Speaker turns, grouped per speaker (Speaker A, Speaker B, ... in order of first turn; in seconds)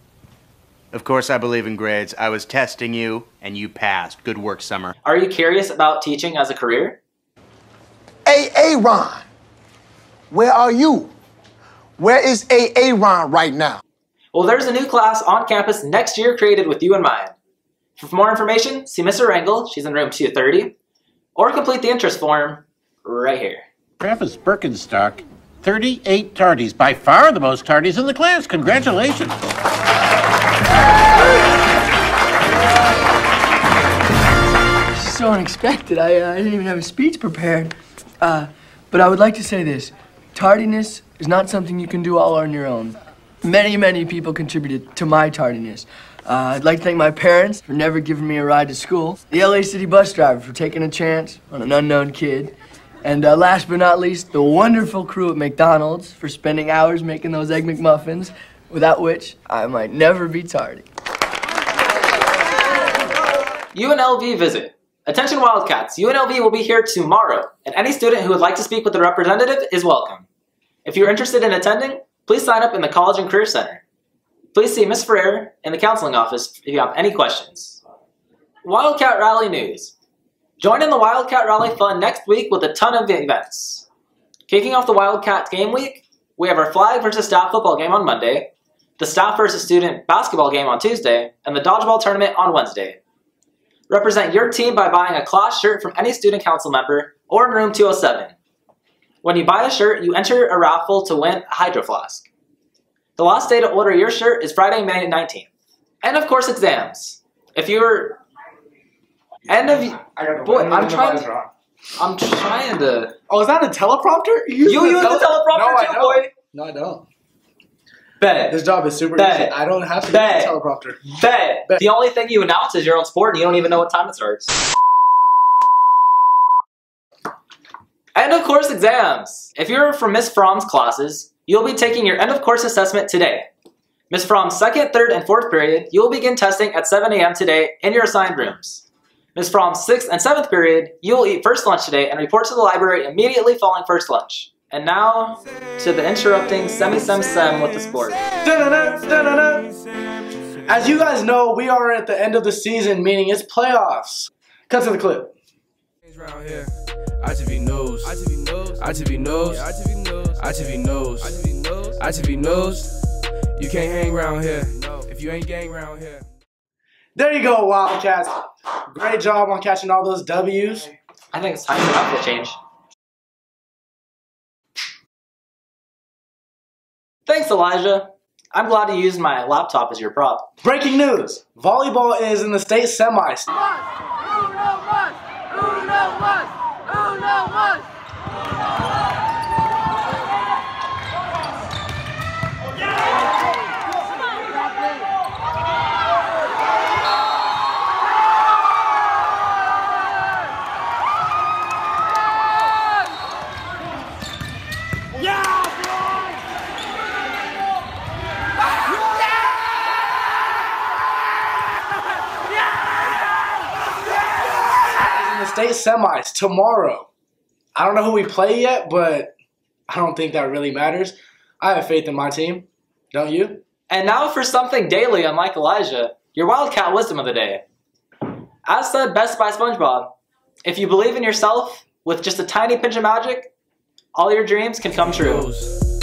Speaker A: 0.9-4.9
Speaker B: 5.0-7.0, 14.3-17.4, 18.0-20.7, 21.4-23.6, 63.7-70.3, 70.8-73.8, 74.5-77.8, 78.7-79.9, 80.6-83.9, 84.5-93.0, 93.9-98.3, 99.2-102.3, 103.2-105.5, 106.0-108.2, 109.5-111.3, 112.0-113.2, 114.7-116.3, 118.2-118.6, 119.1-124.5, 128.2-133.5, 134.1-148.2, 171.3-172.6, 177.3-180.5, 223.9-227.6, 228.7-230.2, 230.7-233.5, 234.2-235.5
Speaker C: 8.3-9.3, 10.3-11.1, 12.0-13.8
Speaker D: 24.0-29.4
Speaker E: 35.0-52.5, 53.0-60.9
Speaker F: 110.1-111.5, 113.3-117.0, 118.5-121.0, 148.4-149.7, 150.7-155.3, 167.2-170.9, 180.6-183.5, 215.1-217.1, 217.8-219.3, 219.9-223.6
Speaker G: 156.1-162.9, 163.6-166.3, 234.9-235.8